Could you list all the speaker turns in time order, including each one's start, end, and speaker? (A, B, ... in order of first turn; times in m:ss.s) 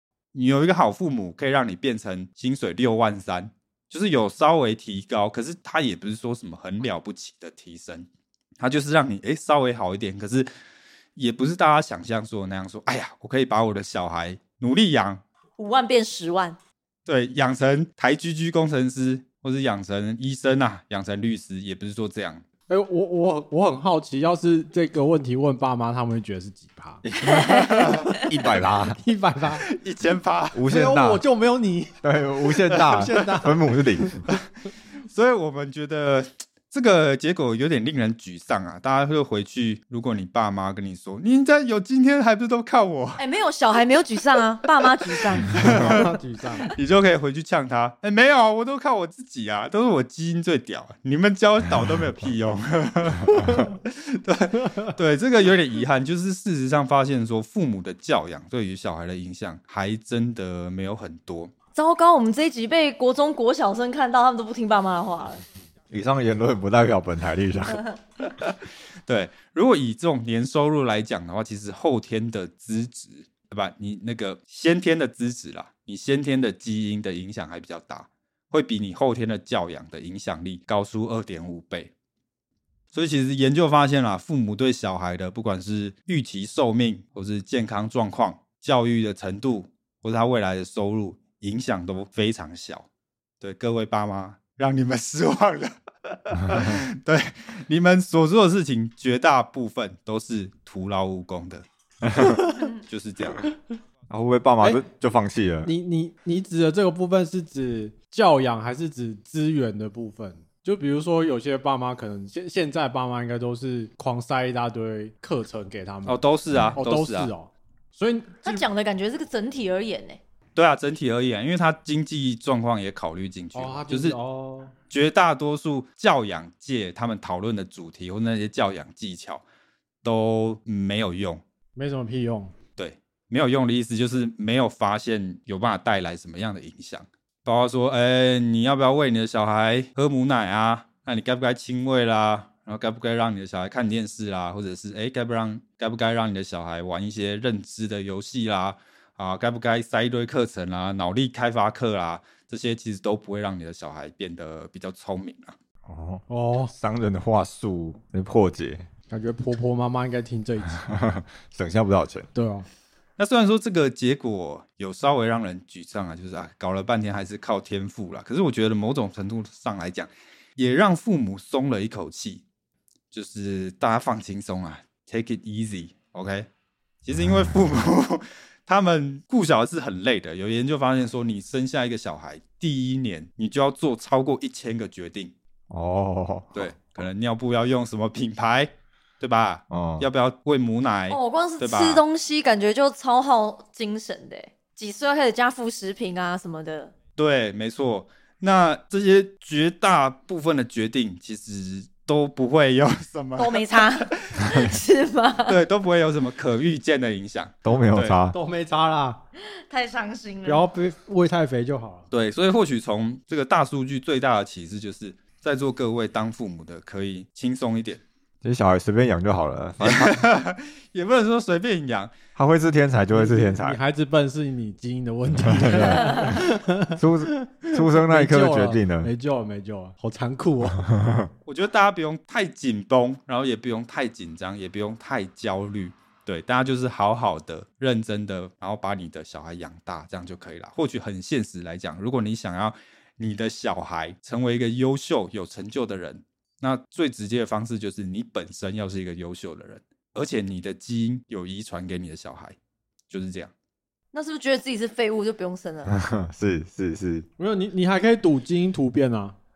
0:00.3-0:08.1 A
0:08.6-0:10.5 A
0:11.2-0:15.2 A
0:15.6-0:16.6 B
0:17.1-0:22.4 A
0:22.7-0:27.0 C
0:27.0-0:29.0 D
0:27.2-0:28.2 B
0:27.4-0:28.0 A
0:28.9-0:29.7 C
0:29.7-0:30.6 A
0:30.5-0:31.2 D
0:30.7-0:32.0 C
0:32.0-0:34.3 D
0:32.7-0:33.6 C
0:32.7-0:33.4 A
0:35.1-0:43.2 A
0:43.2-0:45.7 B
0:45.4-0:46.1 A
0:45.5-0:46.8 C
0:46.6-1:01.5 A
1:01.8-1:05.4 B
1:05.9-1:07.8 D
1:08.2-1:21.9 A
1:22.9-1:32.9 A
1:33.4-1:41.7 A
1:36.5-1:36.8 D
1:42.0-1:42.4 D
1:42.9-1:43.4 A
1:44.1-1:45.7 D
1:45.6-1:56.2 C
1:56.1-1:57.3 A
1:56.5-1:56.8 D
1:56.8-1:58.6 C
1:58.4-2:00.2 B
2:00.6-2:04.2 A
2:03.5-2:04.7 C
2:04.9-2:09.4 A
2:10.0-2:11.4 A
2:11.8-2:12.5 C
2:12.8-2:35.6 A
2:35.8-2:38.9 D
2:36.3-2:36.7 C
2:39.1-2:40.8 C
2:40.8-2:42.3 D
2:42.3-2:42.7 C
2:43.2-2:52.4 A
2:53.1-2:56.5 A
2:57.0-3:05.3 A
3:05.7-3:06.7 D
3:06.5-3:12.0 A
3:09.7-3:10.1 D
3:11.1-3:16.9 B
3:17.2-3:24.5 A
3:23.4-3:25.6 B
3:25.4-3:28.2 A
3:27.6-3:28.4 D
3:28.3-3:29.2 C
3:29.4-3:30.7 B
3:30.4-3:32.1 C
3:32.1-3:38.0 A
3:38.4-3:40.2 D
3:39.8-3:42.2 A
3:42.4-3:43.8 D
3:43.1-3:50.9 C
3:45.4-3:46.4 D
3:47.0-3:49.1 D
3:50.8-3:51.3 D
3:51.5-4:12.6 A
4:13.1-4:13.5 A
4:14.1-4:16.0 B
4:15.9-4:17.3 D
4:17.4-4:19.4 C